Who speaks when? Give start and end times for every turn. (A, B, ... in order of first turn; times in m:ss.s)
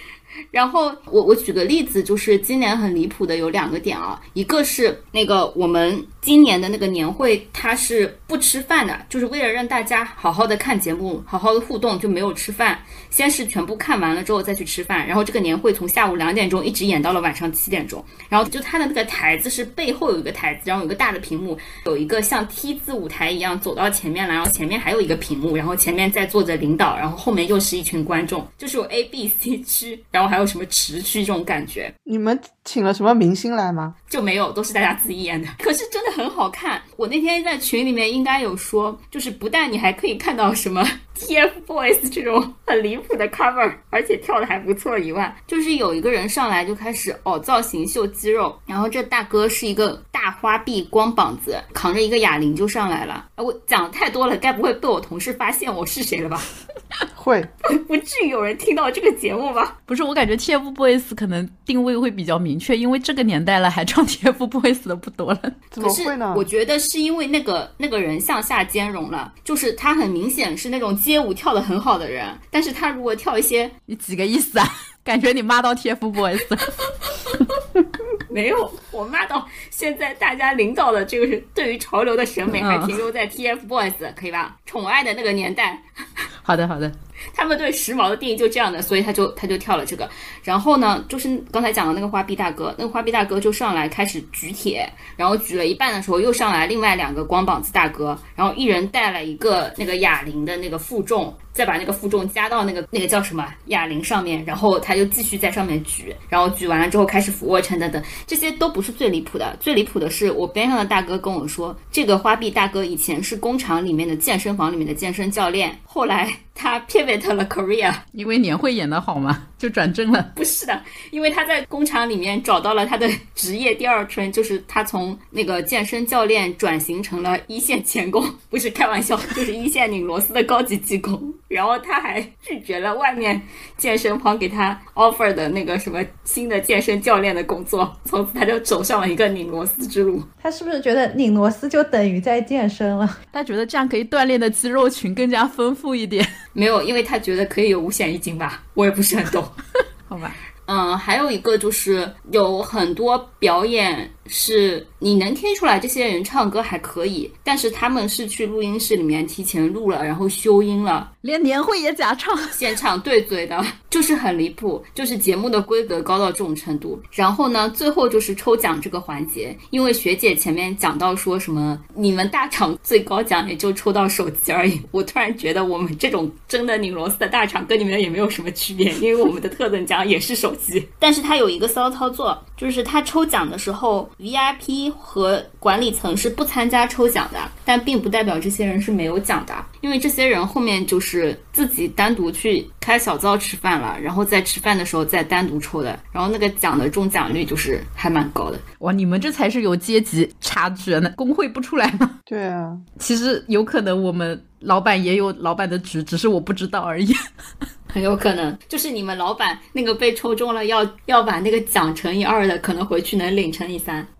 0:00.5-0:31.9 A
0:32.0-0:33.9 B
0:34.1-0:56.5 A
0:57.2-0:57.5 B
0:57.6-0:59.7 A
0:59.9-1:05.6 C
1:05.7-1:06.4 B
1:05.8-1:13.7 A
1:13.9-1:16.7 C
1:18.3-1:25.8 A
1:22.5-1:23.0 C
1:26.4-1:27.0 C
1:27.3-1:58.0 A
1:58.1-2:00.3 C
2:00.3-2:20.3 A
2:20.4-2:23.2 D
2:23.3-2:26.3 C
2:26.5-2:29.5 A
2:30.1-2:30.4 C
2:30.6-2:41.1 A
2:41.2-2:42.6 C
2:42.5-3:18.6 A
3:18.8-3:22.1 C
3:22.3-3:22.8 B
3:23.0-3:27.2 C
3:27.9-3:34.1 A